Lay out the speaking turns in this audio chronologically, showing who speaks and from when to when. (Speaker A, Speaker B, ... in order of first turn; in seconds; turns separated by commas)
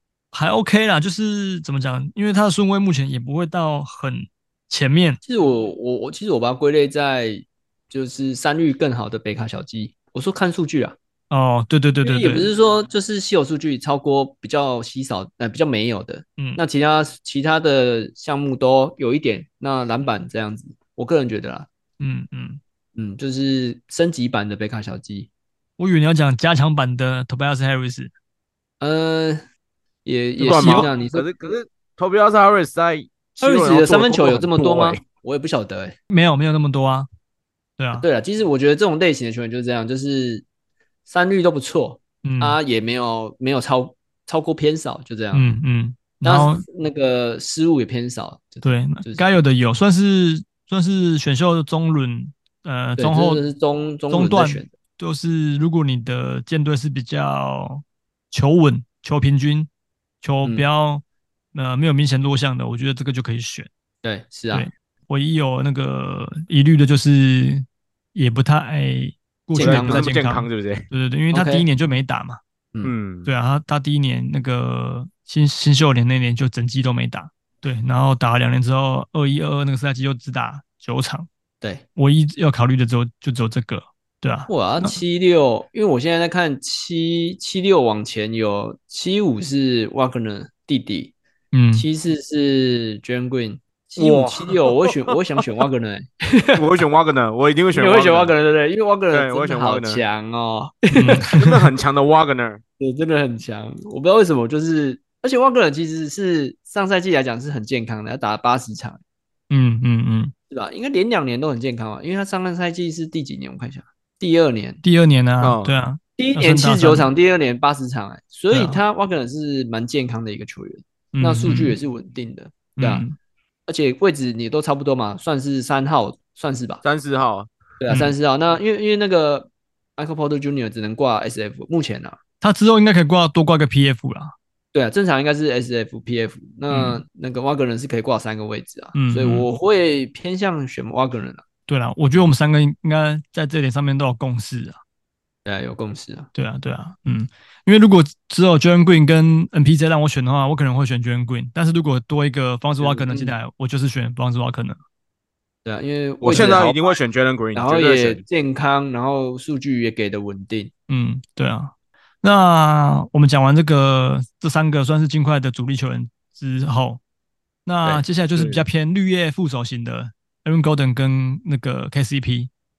Speaker A: 0.3-5.2, Speaker B: 5.2-11.0, Speaker A: 11.3-12.5, Speaker B: 12.0-21.7, Speaker A: 22.0-22.6, Speaker B: 23.0-25.3, Speaker A: 25.8-28.1, Speaker B: 28.8-29.4, Speaker B: 30.1-31.2, Speaker A: 30.4-30.9, Speaker C: 30.4-35.0, Speaker B: 33.4-36.0, Speaker A: 36.1-37.1, Speaker A: 37.8-38.1, Speaker B: 38.0-40.4, Speaker B: 41.1-45.5, Speaker A: 42.2-42.6, Speaker A: 45.3-46.6, Speaker B: 46.2-49.2, Speaker A: 48.6-53.4, Speaker B: 53.0-54.7, Speaker A: 54.1-59.7, Speaker A: 60.2-63.7, Speaker B: 64.0-64.7, Speaker A: 64.5-72.4, Speaker B: 69.5-70.1, Speaker C: 69.6-70.9, Speaker B: 71.3-71.7, Speaker C: 72.8-73.3, Speaker A: 73.3-81.3, Speaker A: 82.0-85.0, Speaker B: 84.5-91.1, Speaker A: 91.5-91.9, Speaker B: 91.7-96.7, Speaker C: 94.0-95.2, Speaker C: 96.5-98.3, Speaker B: 97.7-101.5, Speaker C: 99.1-100.0, Speaker A: 100.9-101.4, Speaker C: 101.3-102.6, Speaker B: 102.8-109.0, Speaker A: 109.5-110.3, Speaker B: 110.5-114.8, Speaker A: 114.8-117.1, Speaker C: 115.4-115.8, Speaker B: 116.2-123.0, Speaker A: 118.5-118.8, Speaker A: 121.2-121.8, Speaker A: 122.8-123.2, Speaker B: 123.7-126.8, Speaker C: 126.8-127.5, Speaker B: 127.8-132.2, Speaker A: 127.9-128.1, Speaker A: 132.4-134.3, Speaker B: 134.7-141.4, Speaker A: 136.7-137.0, Speaker A: 138.9-139.5, Speaker A: 141.7-144.8, Speaker B: 145.4-146.3, Speaker A: 146.3-154.8, Speaker B: 152.8-153.3, Speaker B: 155.7-156.8, Speaker C: 156.2-158.2, Speaker B: 157.5-160.7, Speaker A: 160.9-167.0, Speaker A: 167.7-172.5, Speaker C: 168.3-168.6